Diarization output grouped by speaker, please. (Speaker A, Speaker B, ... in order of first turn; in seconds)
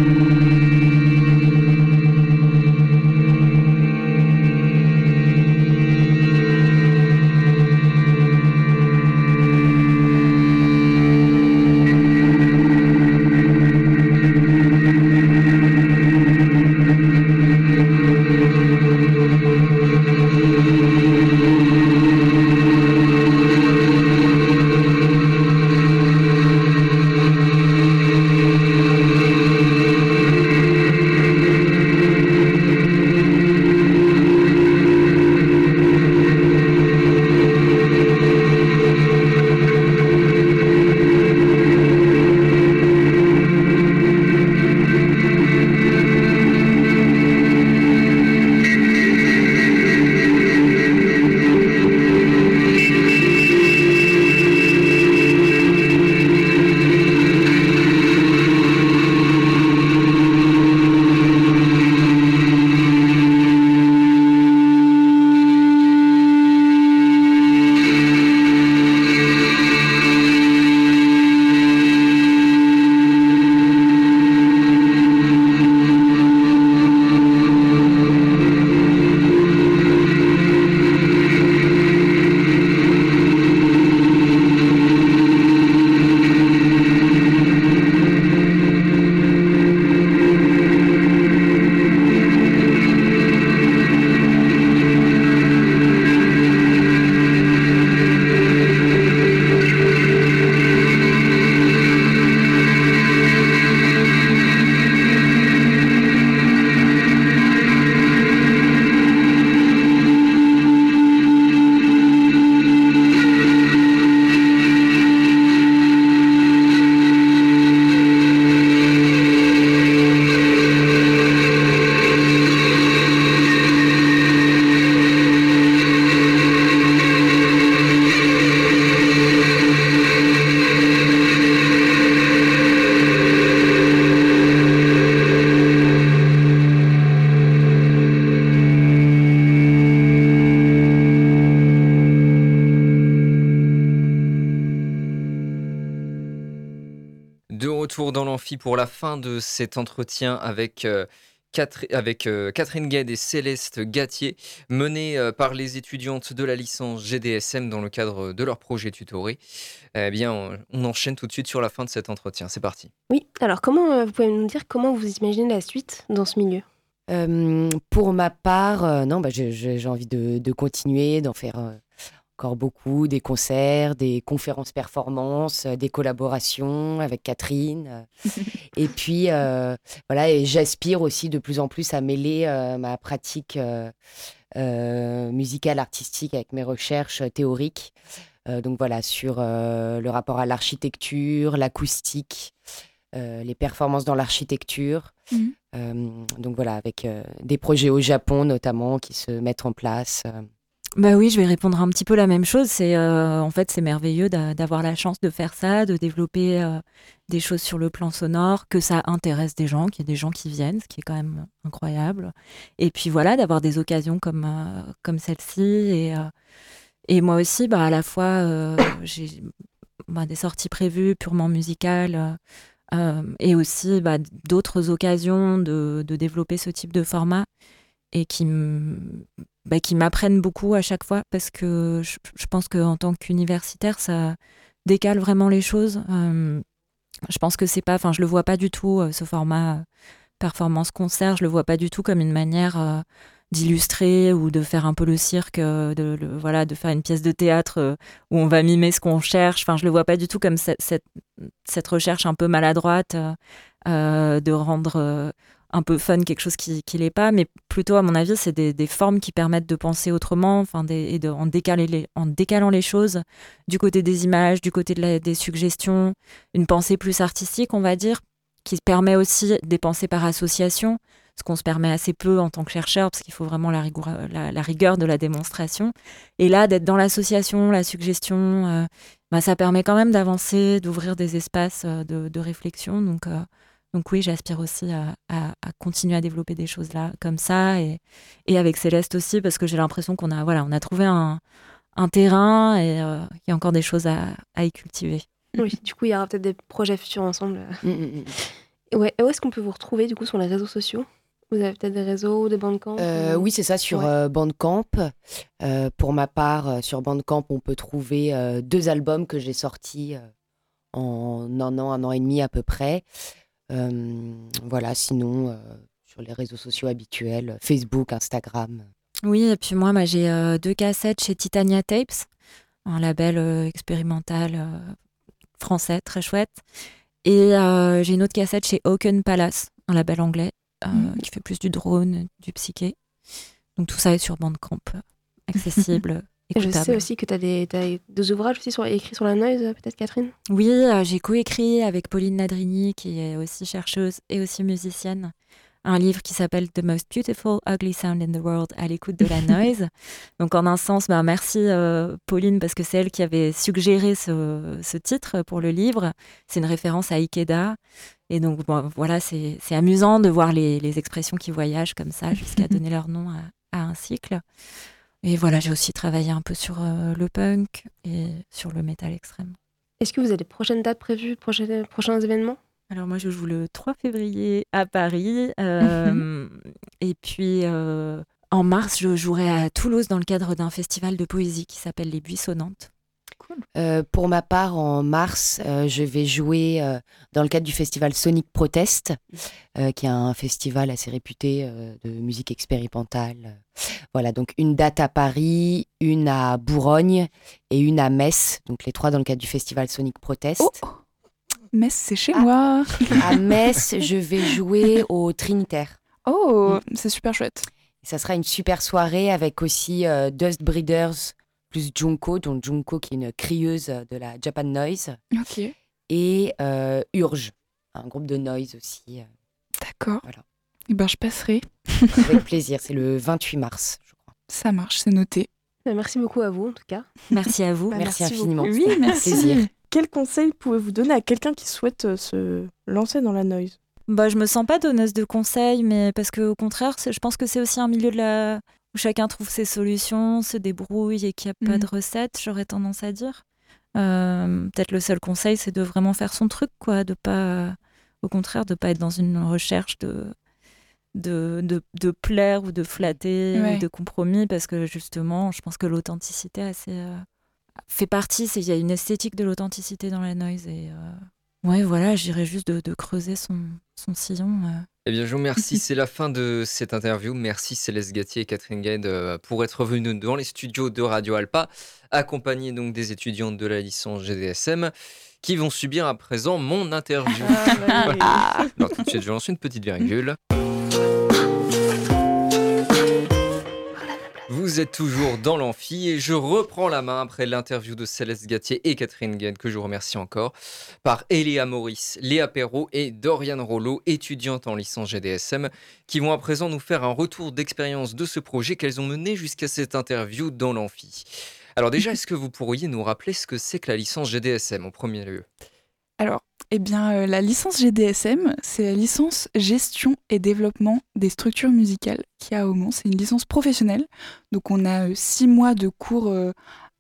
Speaker A: 147.5-159.4, 159.9-162.9, 465.1-480.4, 484.5-505.5
Speaker B: 163.1-166.7, 295.6-297.8, 298.4-304.1, 336.6-340.3, 370.0-372.6, 425.9-427.1
Speaker C: 167.1-171.8, 172.4-178.1, 178.7-183.9, 184.6-187.9, 188.5-192.5, 193.1-195.1, 195.7-200.5, 297.8-298.4, 303.0-310.3, 310.9-313.0, 313.7-318.9, 383.8-389.2, 389.8-393.6, 394.1-400.8, 403.1-406.0, 408.0-415.2, 416.1-419.3, 422.2-424.3, 427.9-429.7
Speaker D: 201.0-216.3, 217.1-219.5, 220.1-222.4, 222.9-227.5, 228.1-236.6, 237.3-239.8, 240.4-291.4, 292.0-295.2, 319.2-322.3, 322.9-324.9, 325.6-326.6, 327.2-333.0, 333.8-337.1, 340.5-345.3, 345.8-357.8, 358.3-364.4, 365.2-369.6, 372.9-382.9, 427.3-428.1, 434.1-443.4, 443.9-450.4, 451.1-457.2, 457.9-464.9
Speaker E: 375.8-376.2, 400.6-401.0, 401.7-403.3, 406.3-407.7, 415.3-415.7, 419.8-420.2, 420.9-422.3, 424.5-425.5, 428.6-429.7, 441.6-441.9, 453.5-453.8, 478.0-478.7, 506.2-516.5
Speaker F: 428.0-433.8, 477.4-478.7